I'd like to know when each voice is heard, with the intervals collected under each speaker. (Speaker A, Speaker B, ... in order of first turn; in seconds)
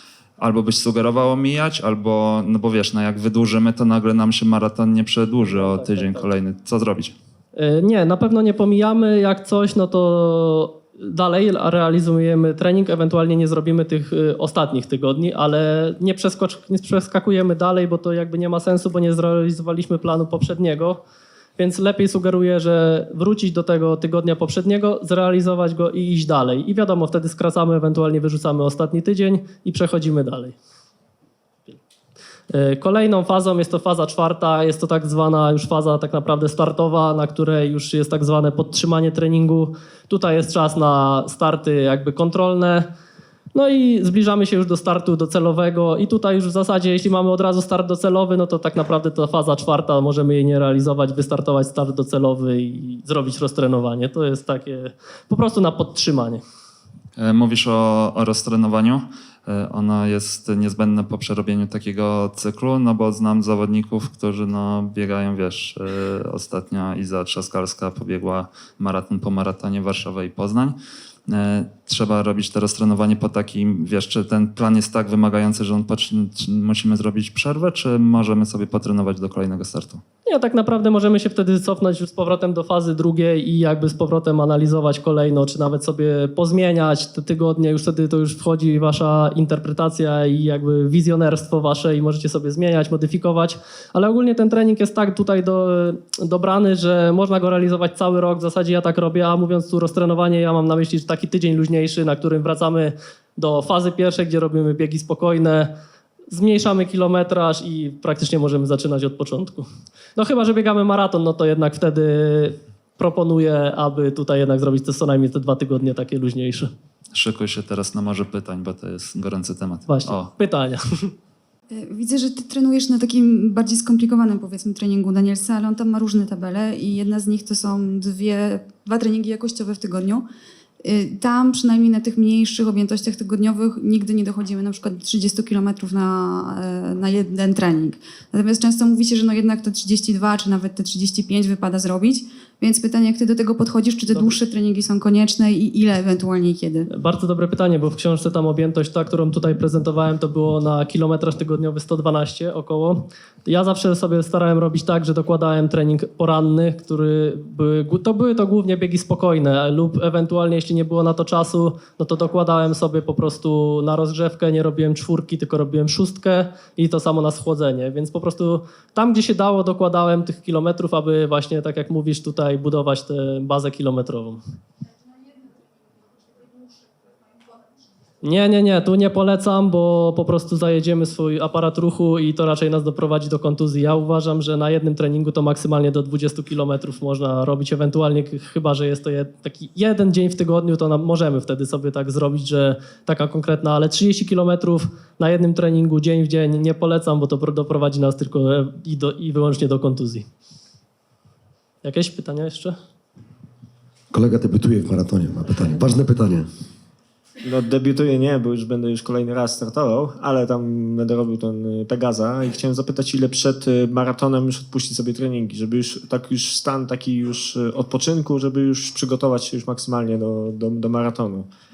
Speaker A: 0.4-7.2, 57.2-70.8, 71.3-80.0, 117.1-120.3
Speaker B: 5.4-6.3, 7.6-21.0, 21.6-30.6, 32.5-42.9, 43.5-56.4, 80.3-105.7, 106.3-116.7, 119.9-121.1, 146.9-174.4, 178.2-200.3, 201.8-202.8
Speaker C: 121.7-130.3, 130.8-146.9
Speaker D: 204.1-206.5
Speaker E: 207.4-221.5